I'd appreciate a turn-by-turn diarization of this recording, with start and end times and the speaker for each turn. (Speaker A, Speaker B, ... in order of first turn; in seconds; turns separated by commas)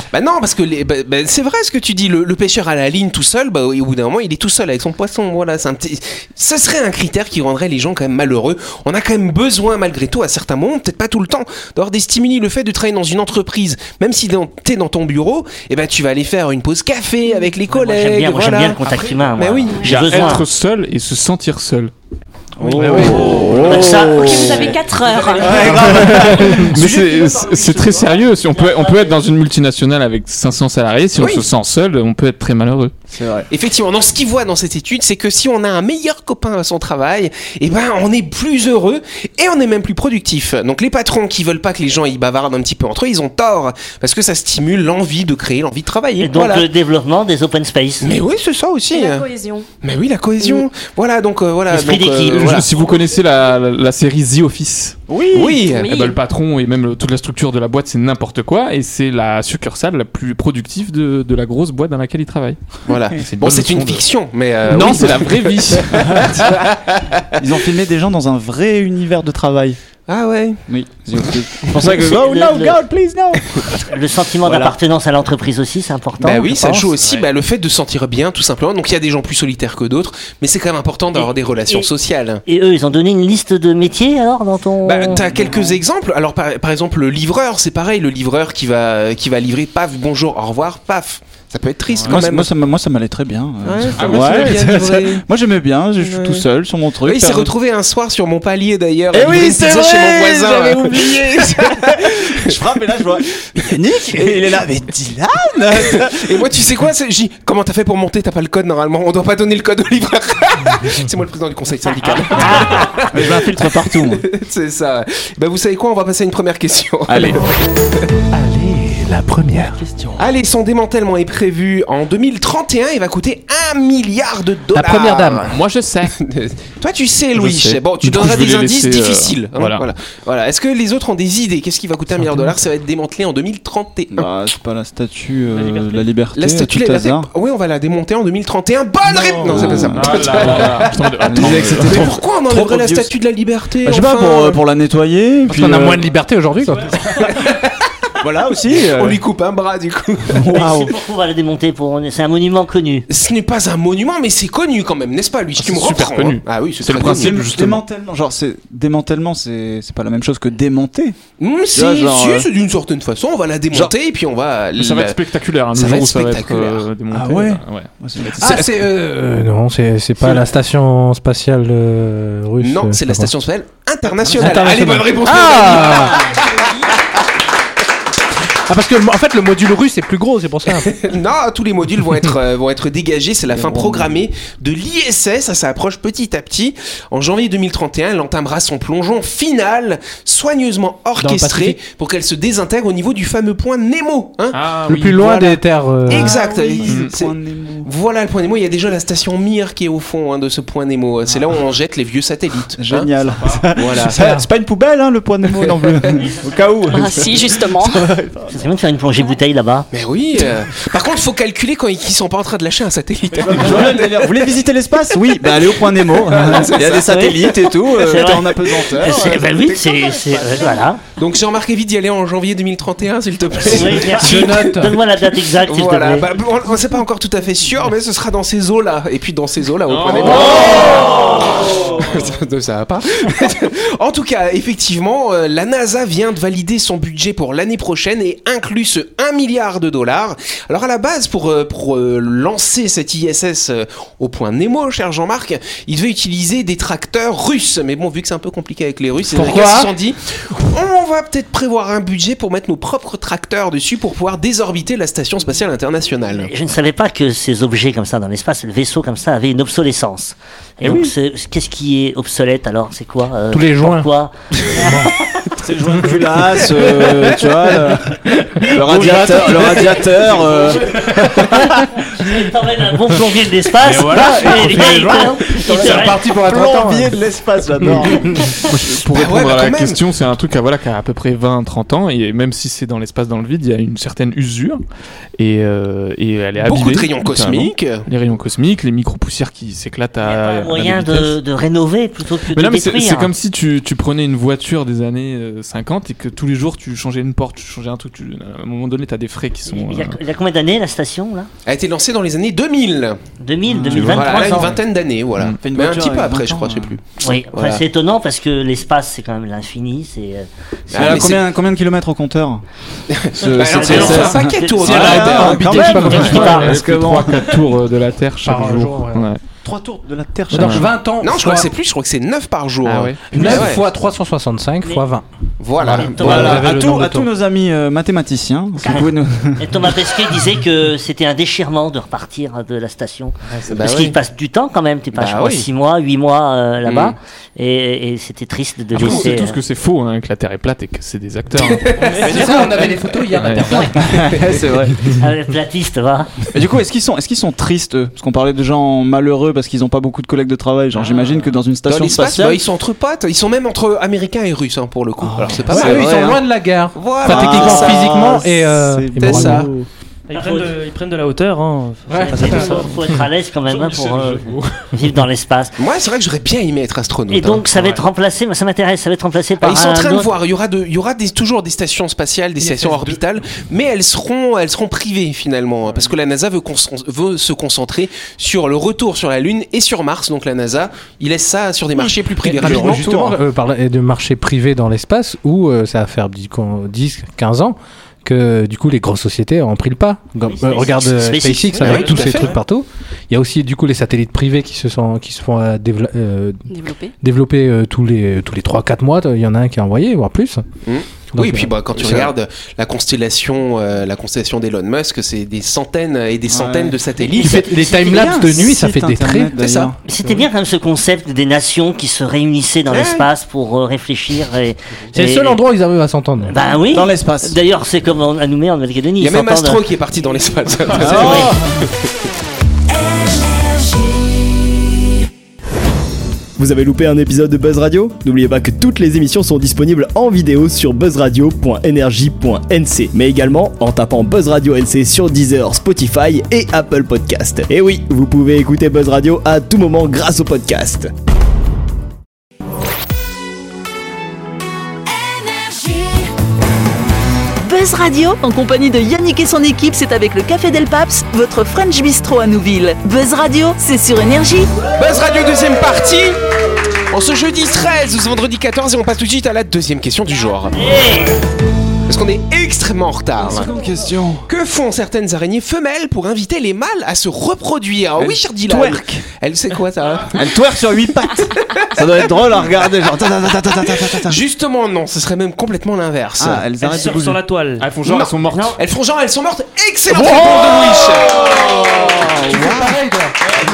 Speaker A: 0.1-18.8, Speaker B: 17.7-20.4, Speaker A: 19.4-19.9, Speaker C: 19.6-20.0, Speaker D: 19.8-21.9, Speaker E: 22.6-24.8, Speaker F: 22.7-23.6, Speaker C: 23.6-25.9, Speaker B: 23.6-24.7, Speaker E: 25.3-28.1, Speaker D: 25.8-32.9, Speaker F: 25.9-26.8, Speaker B: 28.3-29.2, Speaker A: 31.2-31.4, Speaker E: 33.1-33.5, Speaker A: 33.5-46.7, Speaker B: 46.2-48.1, Speaker A: 48.0-49.2, Speaker C: 48.9-49.6, Speaker A: 49.8-52.6, Speaker B: 51.7-52.6, Speaker D: 52.3-55.0, Speaker E: 55.1-55.7, Speaker A: 55.3-55.9, Speaker C: 55.7-56.2, Speaker D: 55.8-62.6, Speaker A: 62.9-67.4, Speaker D: 63.1-64.0, Speaker D: 64.6-66.5, Speaker E: 66.0-66.4, Speaker E: 67.4-69.8, Speaker A: 70.1-70.6, Speaker E: 70.7-73.8, Speaker B: 72.1-72.8, Speaker B: 73.9-76.8, Speaker E: 74.4-74.8, Speaker A: 76.2-82.4, Speaker D: 77.0-77.3, Speaker B: 81.1-81.9, Speaker B: 82.5-85.3, Speaker A: 84.8-92.5, Speaker D: 91.9-92.2, Speaker E: 92.0-97.5, Speaker A: 93.6-95.2, Speaker D: 94.0-94.6, Speaker A: 96.0-96.5, Speaker A: 97.0-102.5, Speaker E: 99.1-106.5, Speaker A: 105.8-117.4, Speaker E: 112.3-114.2, Speaker E: 117.1-117.4, Speaker F: 118.3-119.8, Speaker G: 119.8-120.2, Speaker A: 120.2-125.5, Speaker F: 124.7-125.5, Speaker D: 125.5-126.2, Speaker A: 126.2-134.3, Speaker D: 127.3-129.8, Speaker E: 134.1-137.3, Speaker G: 135.5-136.1, Speaker A: 136.3-144.6, Speaker G: 139.0-140.0, Speaker E: 139.4-143.1, Speaker D: 139.6-142.2, Speaker E: 143.8-146.1, Speaker F: 145.5-147.2, Speaker E: 147.1-147.5, Speaker E: 148.2-149.2, Speaker A: 148.7-150.4, Speaker E: 150.3-150.9, Speaker B: 150.5-153.1, Speaker A: 153.1-157.4, Speaker D: 155.6-157.8, Speaker E: 156.9-161.2, Speaker A: 161.4-165.2, Speaker E: 161.7-162.5, Speaker D: 164.8-167.9, Speaker A: 165.7-166.8, Speaker F: 167.1-167.6, Speaker E: 168.0-168.7, Speaker F: 168.4-173.3, Speaker A: 172.6-176.6, Speaker F: 174.4-176.2, Speaker F: 178.7-180.9, Speaker A: 180.8-203.1, Speaker E: 183.5-184.3, Speaker F: 191.2-191.8, Speaker D: 194.5-195.2, Speaker F: 194.9-196.3, Speaker E: 196.1-197.9, Speaker D: 196.8-197.1, Speaker E: 202.8-208.6, Speaker A: 203.8-204.2, Speaker F: 204.1-204.4, Speaker C: 206.9-208.0, Speaker B: 208.5-209.9, Speaker A: 209.9-214.4, Speaker E: 213.3-220.8, Speaker A: 216.2-217.1, Speaker B: 217.0-221.0, Speaker A: 218.9-219.2, Speaker A: 221.2-224.9, Speaker B: 223.6-226.3, Speaker F: 224.1-225.0, Speaker A: 225.6-256.5, Speaker D: 229.8-231.4, Speaker F: 249.3-249.9, Speaker B: 256.4-265.1, Speaker F: 263.5-264.1, Speaker F: 264.6-265.1, Speaker E: 265.6-271.4, Speaker F: 265.9-270.3, Speaker B: 270.4-276.3, Speaker F: 270.9-271.9, Speaker F: 273.8-277.2, Speaker E: 275.5-278.4, Speaker F: 277.8-278.5, Speaker D: 278.6-284.8, Speaker A: 279.1-280.0, Speaker D: 285.4-291.4, Speaker A: 286.6-288.0, Speaker B: 290.2-293.3, Speaker D: 292.5-300.2, Speaker B: 299.7-301.5, Speaker A: 301.6-303.2, Speaker B: 303.4-304.7, Speaker E: 303.7-304.6, Speaker A: 303.9-307.0, Speaker E: 305.6-307.0, Speaker B: 307.2-311.4, Speaker A: 307.5-307.8, Speaker A: 310.9-311.4, Speaker E: 310.9-312.6, Speaker A: 313.1-316.4, Speaker E: 313.3-317.6, Speaker D: 313.6-314.4, Speaker B: 313.7-316.6, Speaker F: 314.8-316.8, Speaker D: 314.9-319.4, Speaker F: 318.4-319.3, Speaker E: 319.6-320.9, Speaker F: 320.5-321.7, Speaker D: 320.5-320.9, Speaker A: 321.2-323.9, Speaker D: 322.8-323.6, Speaker F: 323.3-325.2, Speaker A: 325.6-326.7, Speaker F: 325.8-327.3, Speaker B: 325.9-326.6, Speaker E: 325.9-329.9, Speaker B: 329.6-339.6, Speaker A: 333.6-334.1, Speaker A: 335.1-335.7, Speaker A: 336.8-337.1, Speaker D: 338.9-341.9, Speaker A: 339.0-339.3, Speaker A: 341.5-342.8, Speaker G: 341.9-342.7, Speaker F: 342.1-344.2, Speaker D: 343.4-343.7, Speaker E: 343.9-345.1, Speaker B: 345.1-346.3, Speaker E: 346.5-352.6, Speaker A: 351.9-356.3, Speaker E: 355.4-356.4, Speaker F: 355.4-359.7, Speaker A: 356.9-358.3, Speaker E: 357.2-359.9, Speaker A: 359.2-359.7, Speaker G: 360.3-362.9, Speaker B: 360.3-360.7, Speaker F: 362.1-362.9, Speaker B: 362.2-365.7, Speaker D: 363.6-364.8, Speaker A: 365.8-367.6, Speaker B: 367.3-370.3, Speaker D: 367.7-368.0, Speaker A: 369.6-383.1, Speaker F: 372.6-373.2, Speaker E: 382.0-383.4, Speaker F: 382.5-396.6, Speaker B: 390.4-392.5, Speaker A: 391.8-392.5, Speaker C: 396.7-397.1, Speaker F: 397.2-400.6, Speaker A: 400.8-407.7, Speaker F: 401.3-402.2, Speaker E: 406.5-410.4, Speaker F: 407.4-409.6, Speaker A: 409.6-409.9, Speaker B: 410.1-415.6, Speaker A: 412.9-413.3, Speaker F: 415.1-416.5, Speaker B: 416.4-419.8, Speaker E: 416.9-417.6, Speaker A: 419.2-421.6, Speaker E: 421.0-421.7, Speaker B: 421.0-421.5, Speaker H: 423.2-423.9, Speaker I: 426.6-441.1, Speaker H: 447.6-454.8, Speaker A: 454.9-456.4, Speaker A: 457.1-460.9, Speaker B: 460.8-461.3, Speaker A: 462.1-463.7, Speaker E: 463.4-464.5, Speaker A: 464.5-470.4, Speaker E: 468.2-469.2, Speaker E: 470.3-474.4, Speaker A: 471.6-472.0, Speaker A: 474.1-476.7, Speaker E: 476.4-477.4, Speaker G: 476.8-477.9, Speaker D: 477.8-478.8, Speaker A: 478.0-483.0, Speaker E: 481.5-482.3, Speaker F: 482.4-483.4